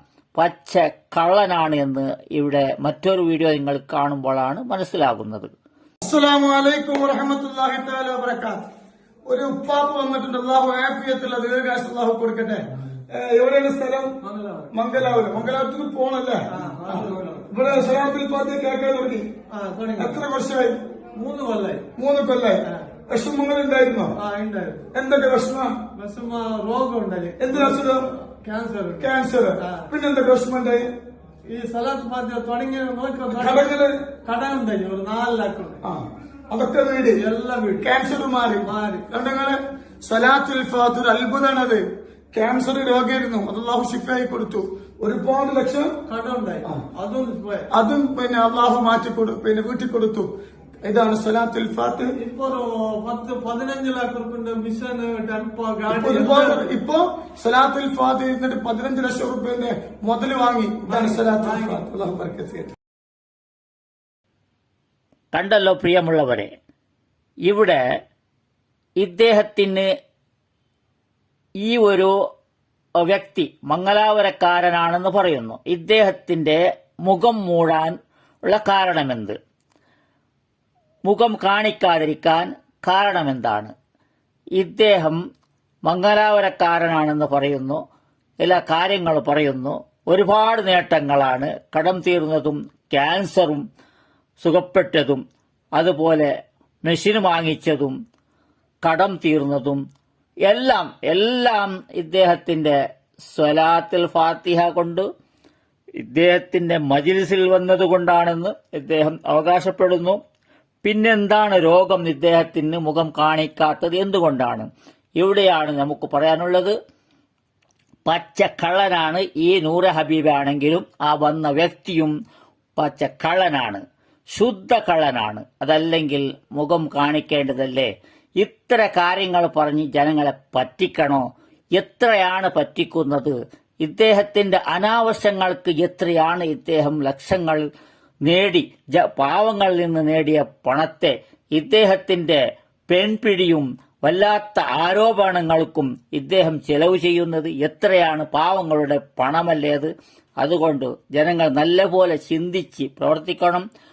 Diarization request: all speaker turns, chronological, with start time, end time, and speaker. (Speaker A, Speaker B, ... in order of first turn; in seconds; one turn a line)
Speaker A: 0.4-5.5
Speaker B: 6.0-8.6
Speaker B: 9.3-14.2
Speaker C: 14.2-14.7
Speaker B: 14.7-19.3
Speaker C: 16.5-17.9
Speaker C: 19.5-20.3
Speaker B: 20.0-20.8
Speaker C: 21.2-21.9
Speaker B: 22.0-24.1
Speaker C: 24.2-24.9
Speaker B: 24.9-25.7
Speaker C: 26.0-29.9
Speaker B: 27.4-28.1
Speaker B: 29.0-30.9
Speaker C: 31.5-33.7
Speaker B: 33.3-34.0
Speaker C: 34.2-35.8
Speaker B: 35.8-37.2
Speaker C: 37.2-37.9
Speaker B: 37.8-45.9
Speaker C: 38.6-39.1
Speaker C: 46.1-47.7
Speaker B: 47.7-50.3
Speaker B: 50.8-52.1
Speaker C: 52.2-56.7
Speaker B: 55.9-62.7
Speaker C: 60.9-61.8
Speaker A: 65.3-66.5
Speaker A: 67.5-67.8
Speaker A: 69.0-69.9
Speaker A: 71.6-72.1
Speaker A: 73.0-77.9
Speaker A: 78.5-79.4
Speaker A: 81.1-83.7
Speaker A: 84.6-85.2
Speaker A: 85.9-87.8
Speaker A: 88.4-93.6
Speaker A: 94.4-95.2
Speaker A: 95.8-96.3
Speaker A: 96.8-97.9
Speaker A: 98.8-99.8
Speaker A: 100.5-102.8
Speaker A: 103.3-105.0
Speaker A: 106.0-110.2
Speaker A: 110.8-114.7
Speaker A: 115.2-116.7
Speaker A: 118.1-122.1
Speaker A: 122.8-123.8
Speaker A: 124.3-131.2
Speaker A: 131.8-137.7
Speaker A: 138.2-153.7